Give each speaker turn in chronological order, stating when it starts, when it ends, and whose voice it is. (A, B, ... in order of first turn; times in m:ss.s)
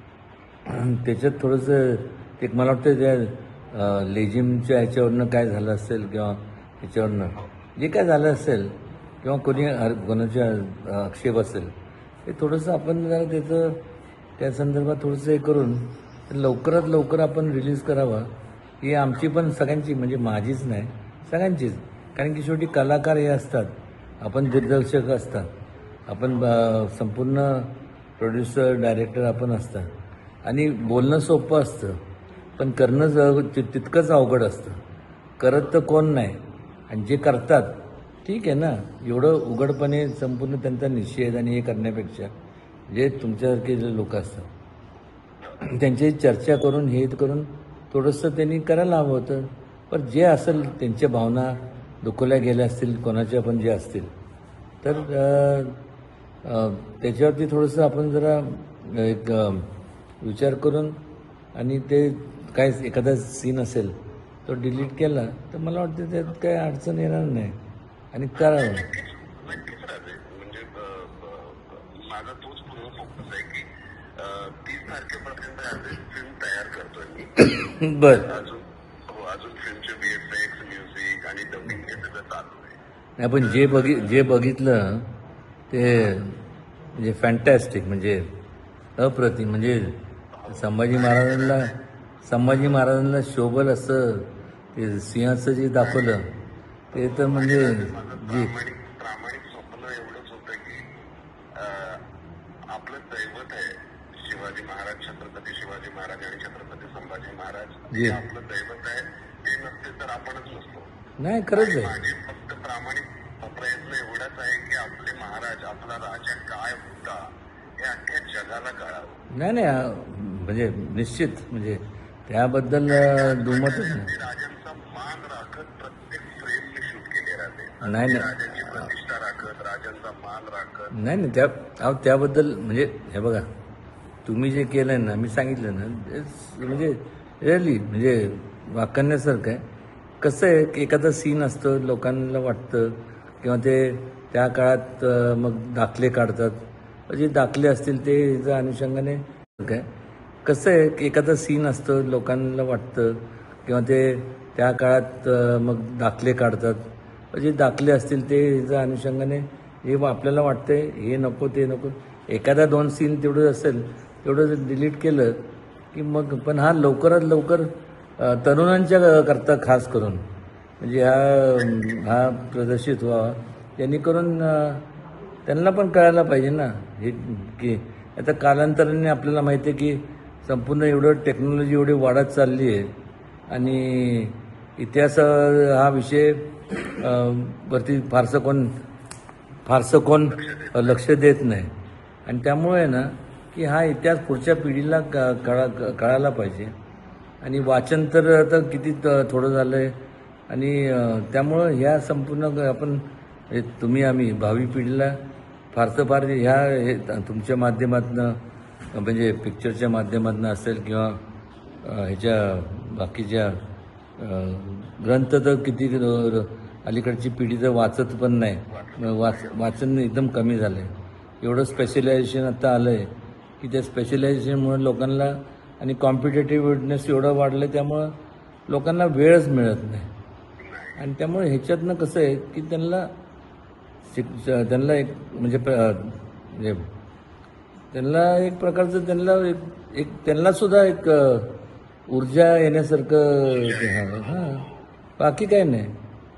0:00.7-0:11.7 A
0:12.3-0:13.8 A
0:14.4-0:18.3 A
0:18.8-0:25.5 A
0:26.1-0:29.9 A
0:30.4-0:32.0 A
0:32.6-0:34.8 A
0:35.4-0:36.4 A
0:36.9-0:42.3 A
0:42.9-0:44.5 A
0:45.6-0:54.1 A
0:54.8-0:55.8 A
0:56.4-0:59.7 A
1:00.2-1:01.0 A
1:01.6-1:07.6 A
1:08.1-1:08.8 A
1:08.4-1:17.5 B
1:17.5-1:18.3 A
1:18.1-1:22.8 B
1:23.2-1:25.1 A
1:23.4-1:24.1 B
1:25.7-1:26.4 A
1:27.0-1:28.3 A
1:29.0-1:30.0 A
1:30.4-1:31.8 B
1:30.5-1:31.7 A
1:32.2-1:36.3 A
1:36.9-1:40.9 B
1:36.9-1:38.5 A
1:41.6-1:42.0 B
1:42.7-1:50.9 B
1:47.9-1:48.2 A
1:51.2-1:52.0 A
1:51.5-1:57.3 B
1:57.8-1:59.2 B
1:59.3-2:04.1 A
2:02.9-2:10.9 B
2:07.8-2:08.9 A
2:10.9-2:13.5 A
2:14.2-2:19.6 A
2:20.2-2:29.9 A
2:30.4-2:36.8 A
2:37.3-2:45.4 A
2:45.9-2:50.2 A
2:50.8-2:54.8 A
2:55.4-3:02.9 A
3:03.5-3:08.7 A
3:09.7-3:11.7 A
3:10.3-3:11.0 B
3:12.3-3:16.7 A
3:17.4-3:19.9 A
3:20.5-3:25.2 A
3:25.7-3:28.4 A
3:28.9-3:31.2 A
3:31.8-3:33.6 A
3:34.2-3:48.1 A
3:38.7-3:39.8 B
3:41.7-3:42.0 B
3:48.7-3:50.1 A
3:50.6-3:51.0 B
3:51.0-3:53.1 A
3:54.1-3:56.9 A
3:57.9-4:01.5 A
4:02.1-4:04.6 A
4:03.4-4:04.9 B
4:05.2-4:05.9 A